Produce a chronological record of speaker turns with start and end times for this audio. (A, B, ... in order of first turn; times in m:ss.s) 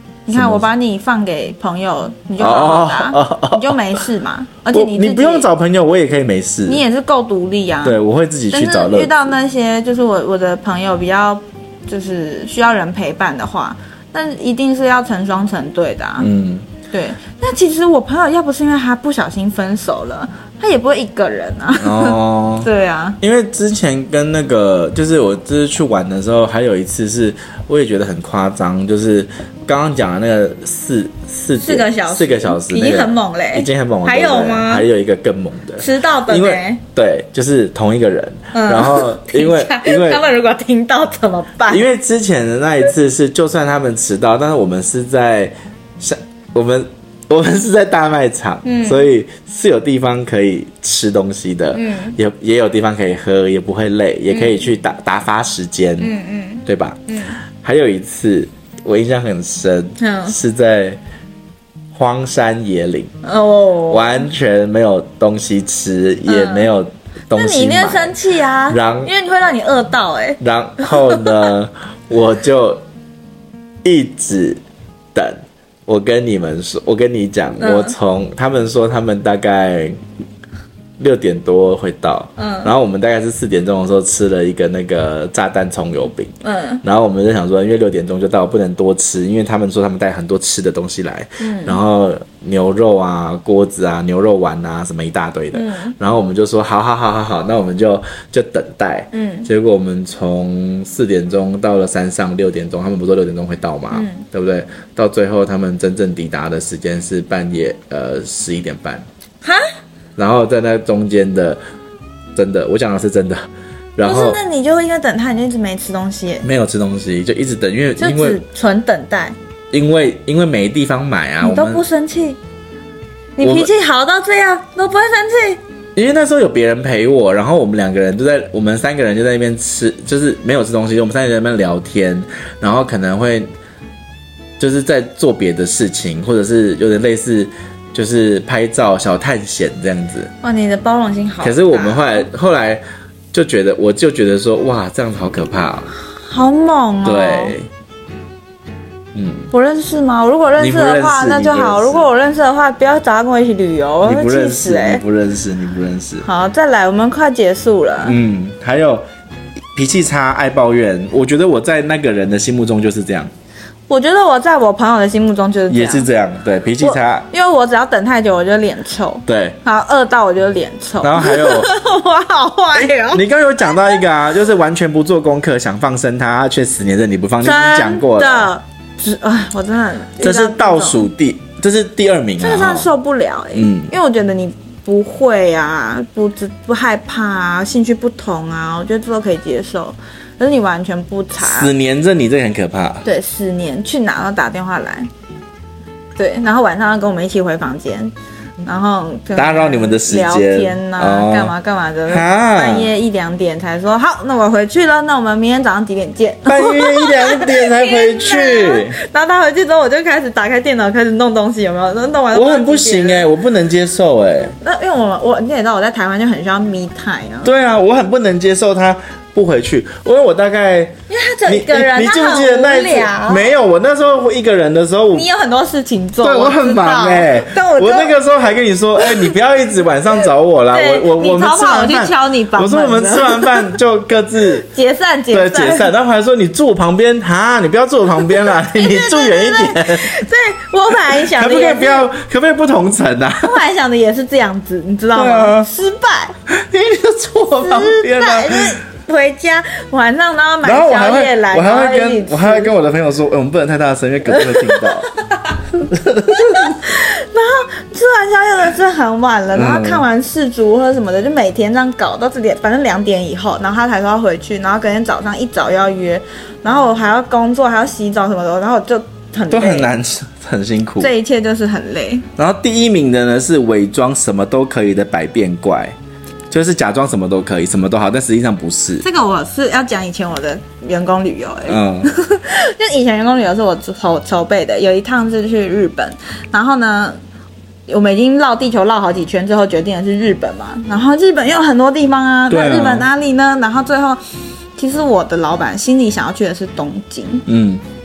0:00.3-0:05.5 A
0:00.3-0:00.7 B
0:02.4-0:04.0 B
0:04.7-0:06.8 B
0:06.7-0:08.0 A
0:07.8-0:09.1 B
0:08.5-0:16.3 A
0:16.2-0:16.7 B
0:16.9-0:23.2 A
0:21.8-0:22.7 B
0:23.2-0:40.2 B
0:31.6-0:34.9 A
0:35.8-0:36.8 A
0:38.5-0:41.9 A
0:41.7-0:56.1 B
0:48.6-0:49.1 A
0:51.7-0:52.2 A
0:54.3-0:54.7 A
0:56.0-0:57.4 A
0:56.6-0:57.0 B
0:57.6-1:01.0 B
1:00.0-1:00.4 A
1:01.9-1:03.1 B
1:03.2-1:04.3 A
1:03.9-1:08.2 B
1:06.3-1:06.7 A
1:07.3-1:11.5 A
1:08.7-1:09.1 B
1:10.4-1:12.8 B
1:13.8-1:14.6 B
1:15.1-1:20.0 B
1:17.6-1:18.0 A
1:21.0-1:49.1 B
1:22.4-1:22.7 A
1:26.4-1:26.8 A
1:31.4-1:31.8 A
1:35.5-1:36.0 A
1:39.1-1:39.5 A
1:43.9-1:44.2 A
1:49.4-1:49.7 A
1:50.2-1:51.6 B
1:52.4-1:54.4 B
1:54.0-1:56.5 A
1:56.4-1:58.4 B
1:58.0-1:59.4 A
1:59.7-2:01.8 B
2:01.4-2:02.4 A
2:03.4-2:05.6 A
2:03.4-2:03.7 B
2:06.0-2:13.5 B
2:14.6-2:20.3 B
2:20.4-2:22.3 A
2:21.4-2:25.9 B
2:26.2-2:27.6 A
2:27.0-2:27.7 B
2:29.1-2:29.5 B
2:29.5-2:35.0 A
2:30.6-2:32.1 B
2:34.0-2:36.3 B
2:36.2-2:38.2 A
2:38.0-2:39.0 B
2:39.7-2:43.3 B
2:43.9-2:46.1 A
2:45.7-2:47.3 B
2:46.8-2:54.0 A
2:49.3-2:49.6 B
2:51.0-2:51.7 B
2:52.8-2:58.5 B
2:57.4-3:01.1 A
3:00.2-3:02.9 B
3:02.4-3:11.7 A
3:03.5-3:03.9 B
3:11.4-3:13.0 B
3:13.0-3:15.1 A
3:16.2-3:33.3 A
3:19.4-3:21.5 B
3:22.1-3:22.9 B
3:26.5-3:29.0 B
3:32.3-3:34.6 B
3:34.6-3:37.5 A
3:37.4-3:41.0 B
3:41.1-3:43.6 A
3:41.5-3:45.3 B
3:45.1-3:48.2 A
3:46.2-3:54.7 B
3:49.0-3:49.4 A
3:50.7-3:53.8 A
3:54.6-3:55.9 A
3:55.3-4:00.2 B
3:58.2-4:02.1 A
4:01.1-4:03.6 B
4:03.4-4:06.4 A
4:05.2-4:05.7 B
4:06.5-4:08.8 B
4:07.6-4:12.7 A
4:10.6-4:15.1 B
4:14.3-4:15.6 A
4:15.8-4:16.7 B
4:16.3-4:29.9 A
4:19.5-4:20.0 B
4:29.5-4:31.1 B
4:31.0-4:32.3 A
4:32.4-4:35.9 B
4:36.5-4:39.0 B
4:39.0-4:47.2 A
4:41.7-4:42.1 B
4:47.9-4:54.2 A
4:52.5-4:53.1 B
4:54.8-4:57.4 A
4:57.5-4:57.8 B